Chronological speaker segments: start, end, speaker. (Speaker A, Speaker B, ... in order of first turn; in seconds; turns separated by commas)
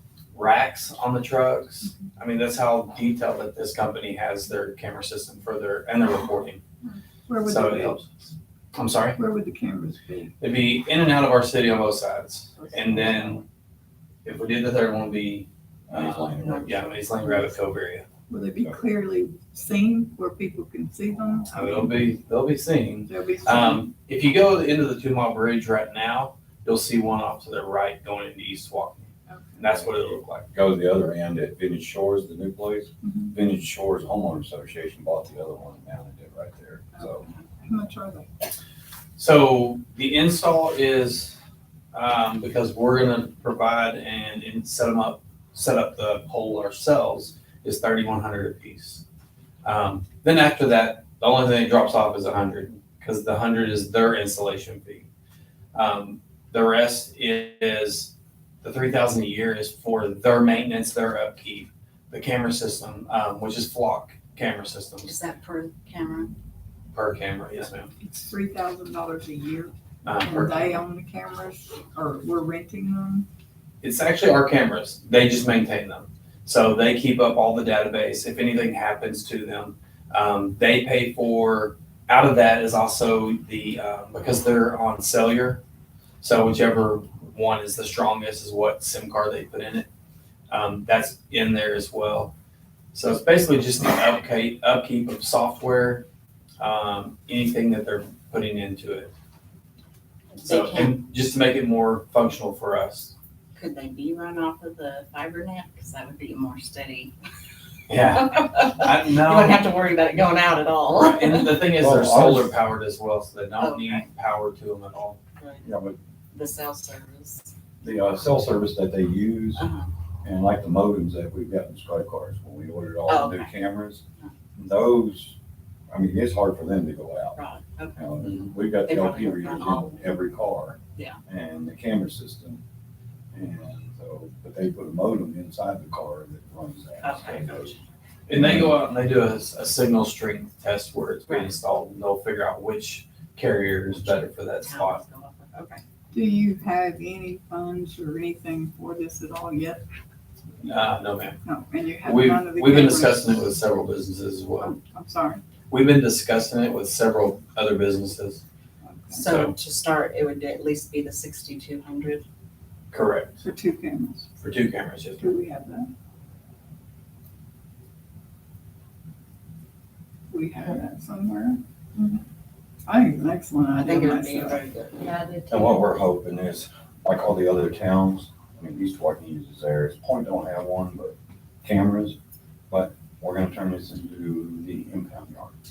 Speaker A: 0.3-6.6, Speaker B: 6.9-8.0, Speaker A: 7.4-9.2, Speaker B: 9.2-10.3, Speaker A: 10.4-13.4, Speaker B: 12.6-13.1, Speaker A: 14.2-18.1, Speaker C: 15.9-16.9, Speaker D: 16.4-16.9, Speaker B: 18.3-21.9, Speaker A: 21.5-30.5, Speaker B: 23.1-23.9, Speaker B: 29.3-29.7, Speaker C: 29.8-37.3, Speaker B: 33.0-33.3, Speaker B: 37.6-38.3, Speaker A: 39.2-41.4, Speaker A: 41.9-49.0, Speaker A: 49.6-55.1, Speaker A: 55.7-65.1, Speaker D: 65.0-66.3, Speaker A: 66.9-67.9, Speaker B: 68.0-73.2, Speaker A: 70.0-70.7, Speaker A: 73.8-85.6, Speaker A: 86.2-89.9, Speaker A: 90.5-92.3, Speaker A: 92.9-96.0, Speaker A: 96.6-99.1, Speaker D: 100.3-100.9, Speaker A: 100.4-103.1, Speaker D: 103.5-107.1, Speaker A: 107.9-109.7, Speaker D: 108.1-111.6, Speaker A: 110.9-115.2, Speaker C: 111.8-112.5, Speaker D: 113.6-114.1, Speaker D: 115.4-115.7, Speaker C: 115.6-116.0, Speaker D: 116.3-117.5, Speaker C: 117.8-119.6, Speaker D: 119.5-119.9, Speaker C: 120.2-124.0, Speaker D: 123.1-123.5, Speaker C: 124.5-125.4, Speaker C: 125.9-127.4, Speaker D: 127.3-128.0, Speaker C: 128.0-132.6, Speaker D: 128.7-130.1, Speaker C: 133.3-137.8, Speaker D: 137.0-137.8, Speaker A: 138.3-145.0, Speaker C: 138.3-138.8, Speaker D: 141.3-141.5, Speaker D: 144.0-145.8, Speaker B: 146.1-149.8, Speaker A: 150.6-151.4, Speaker B: 151.4-153.4, Speaker A: 152.0-154.8, Speaker B: 154.6-155.4, Speaker A: 155.7-158.4, Speaker B: 158.8-159.2, Speaker D: 159.1-162.2, Speaker A: 159.2-159.5, Speaker A: 162.9-163.4, Speaker B: 163.4-164.3, Speaker A: 164.4-165.3, Speaker B: 165.2-165.9, Speaker B: 170.3-172.2, Speaker B: 172.9-174.6, Speaker D: 173.8-175.3, Speaker C: 175.5-182.2, Speaker C: 182.7-185.5